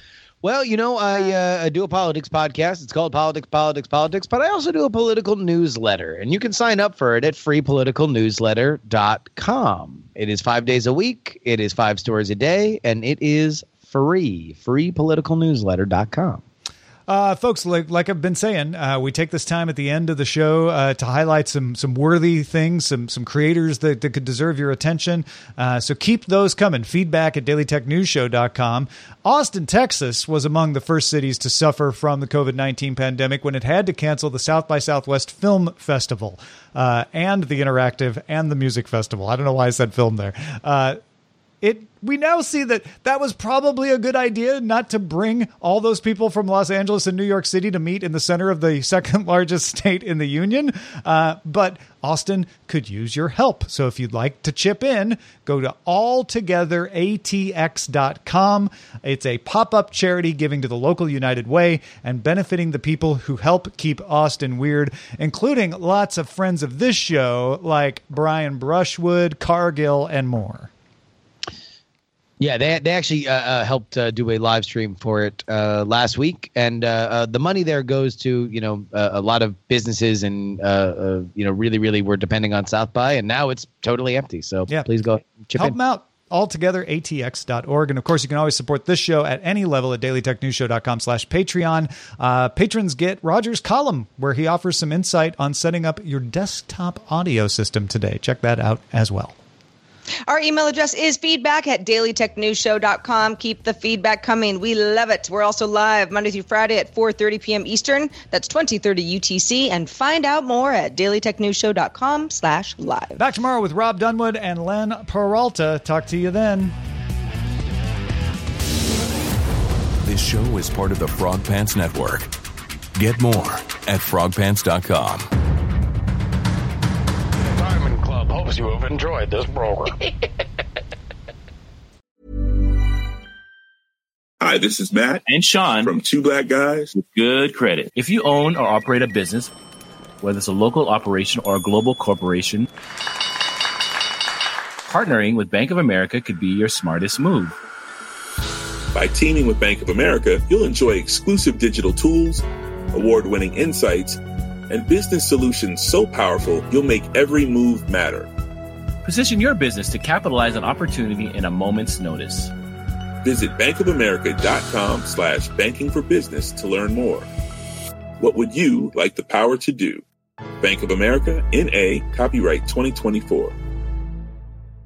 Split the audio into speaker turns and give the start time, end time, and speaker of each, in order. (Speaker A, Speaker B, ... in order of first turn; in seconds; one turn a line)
Speaker A: 0.4-16.4
Speaker B: 17.1-41.0
Speaker B: 41.6-70.7
Speaker A: 72.4-85.8
Speaker B: 85.5-99.3
Speaker C: 100.3-113.2
Speaker B: 113.2-116.7
Speaker D: 120.0-122.3
Speaker D: 123.0-125.3
Speaker E: 127.4-130.1
Speaker F: 134.4-135.2
Speaker G: 135.3-136.0
Speaker F: 135.8-136.9
Speaker G: 136.9-139.5
Speaker G: 140.2-142.7
Speaker G: 144.9-147.6
Speaker F: 148.9-154.2
Speaker F: 154.7-158.3
Speaker G: 159.0-162.5
Speaker F: 163.2-167.3
Speaker F: 168.2-170.0
Speaker F: 170.6-173.5